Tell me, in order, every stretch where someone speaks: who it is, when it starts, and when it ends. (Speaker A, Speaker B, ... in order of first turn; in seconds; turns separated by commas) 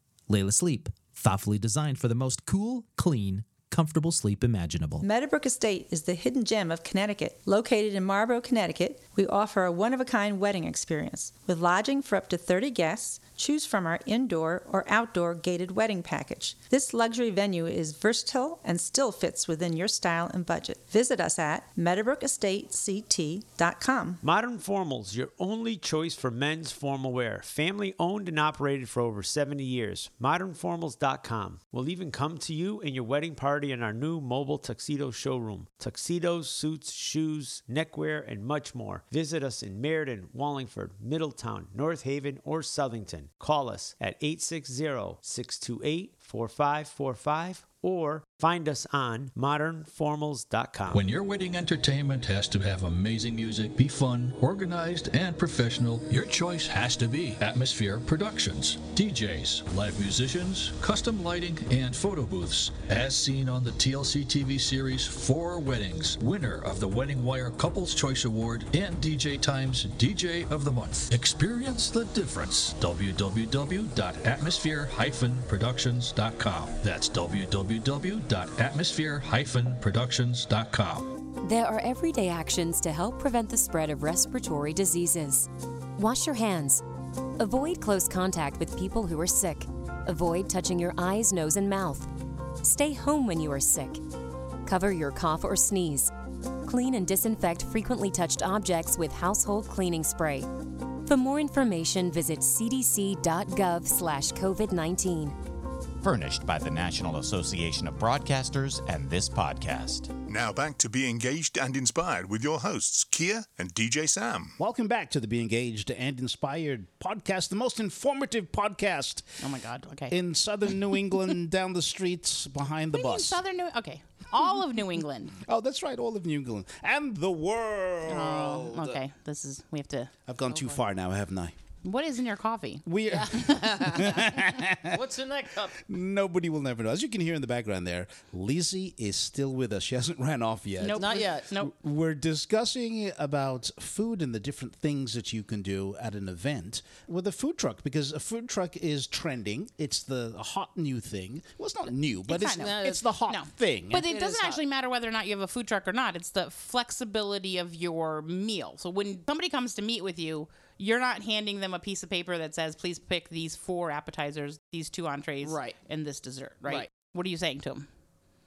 Speaker A: 0.3-5.1, Speaker B: 5.0-24.2, Speaker C: 24.2-51.0, Speaker D: 50.9-81.1, Speaker E: 81.4-86.8, Speaker E: 87.4-92.1, Speaker E: 92.6-94.0, Speaker E: 94.7-96.1, Speaker E: 96.7-100.5, Speaker E: 101.1-105.4, Speaker F: 106.0-110.1, Speaker G: 110.3-114.6, Speaker H: 114.6-119.4, Speaker I: 119.4-120.2, Speaker H: 120.1-123.4, Speaker I: 120.7-121.1, Speaker I: 122.9-125.4, Speaker H: 125.4-129.0, Speaker I: 128.1-130.8, Speaker H: 130.3-131.6, Speaker I: 131.8-132.8, Speaker H: 132.8-135.0, Speaker J: 133.1-135.8, Speaker H: 135.8-154.1, Speaker I: 140.8-141.7, Speaker J: 140.9-141.5, Speaker I: 152.3-167.9, Speaker J: 152.5-153.0, Speaker J: 154.0-154.6, Speaker J: 165.4-165.8